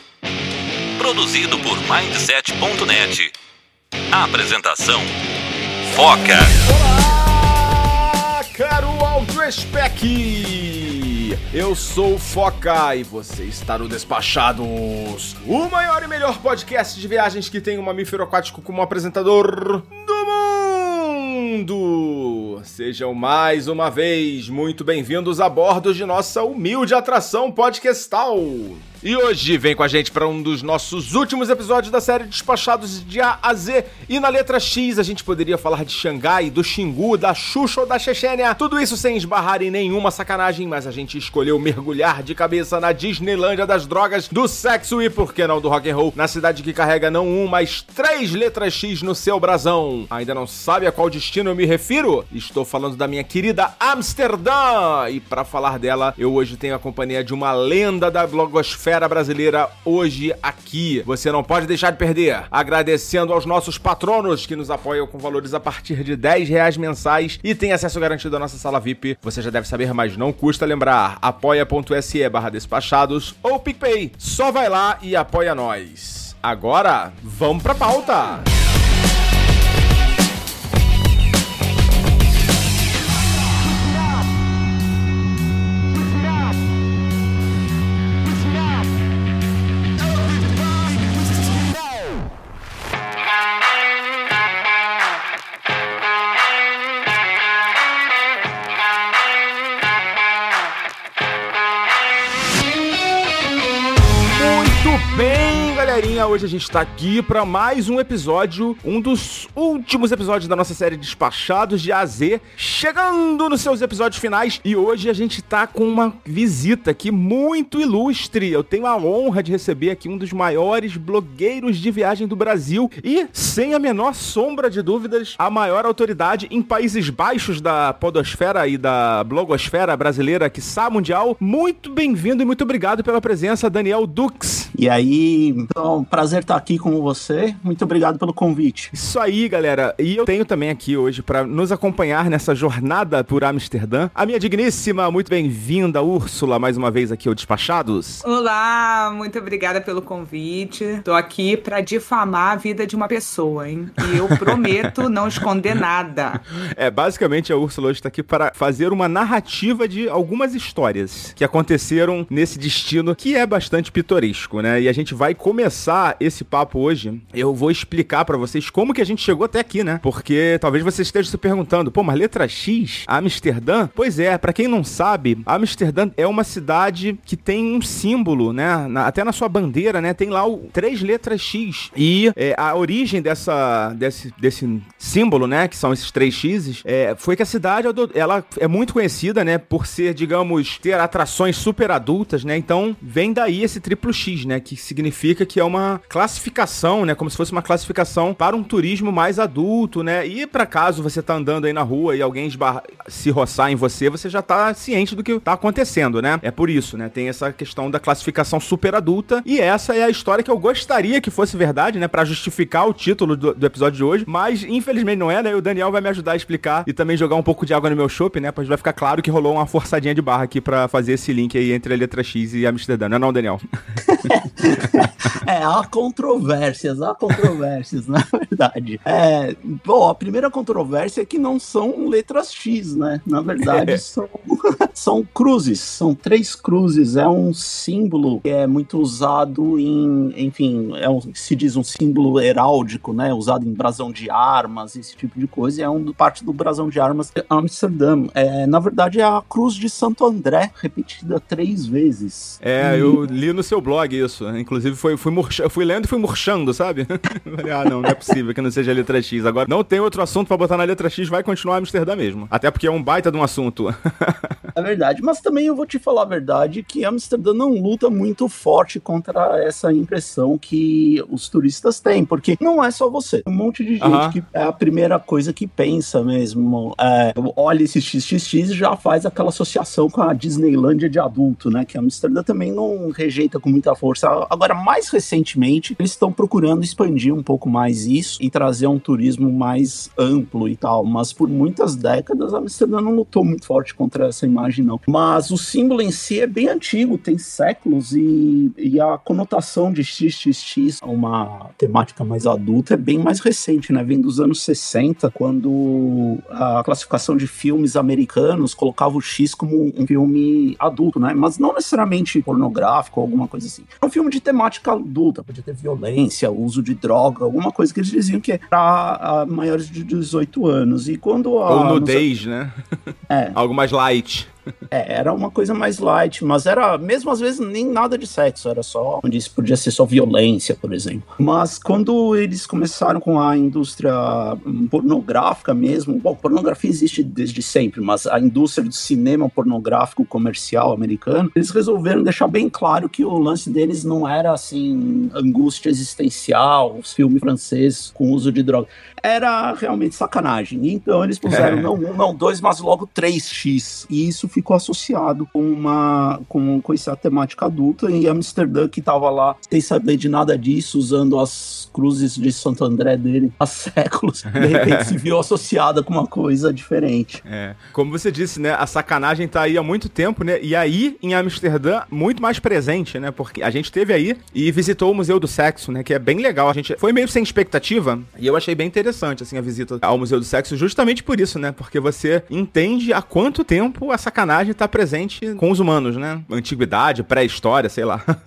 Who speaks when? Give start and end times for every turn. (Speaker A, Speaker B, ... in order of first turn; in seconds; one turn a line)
Speaker A: 1.0-3.3
Speaker A: 4.1-5.2
Speaker A: 5.9-6.6
Speaker B: 6.6-78.5
Speaker B: 104.3-134.7
Speaker C: 134.8-138.9
Speaker B: 138.9-148.2
Speaker D: 148.2-156.4
Speaker B: 154.5-155.0
Speaker B: 156.6-223.6
Speaker C: 224.1-253.2
Speaker B: 233.7-234.0
Speaker B: 252.6-264.6
Speaker C: 264.8-322.2
Speaker B: 274.0-274.4
Speaker B: 321.7-322.8
Speaker C: 323.3-323.6
Speaker B: 323.6-324.5
Speaker C: 324.9-367.4
Speaker B: 351.5-351.8
Speaker B: 364.5-365.2
Speaker B: 367.5-388.3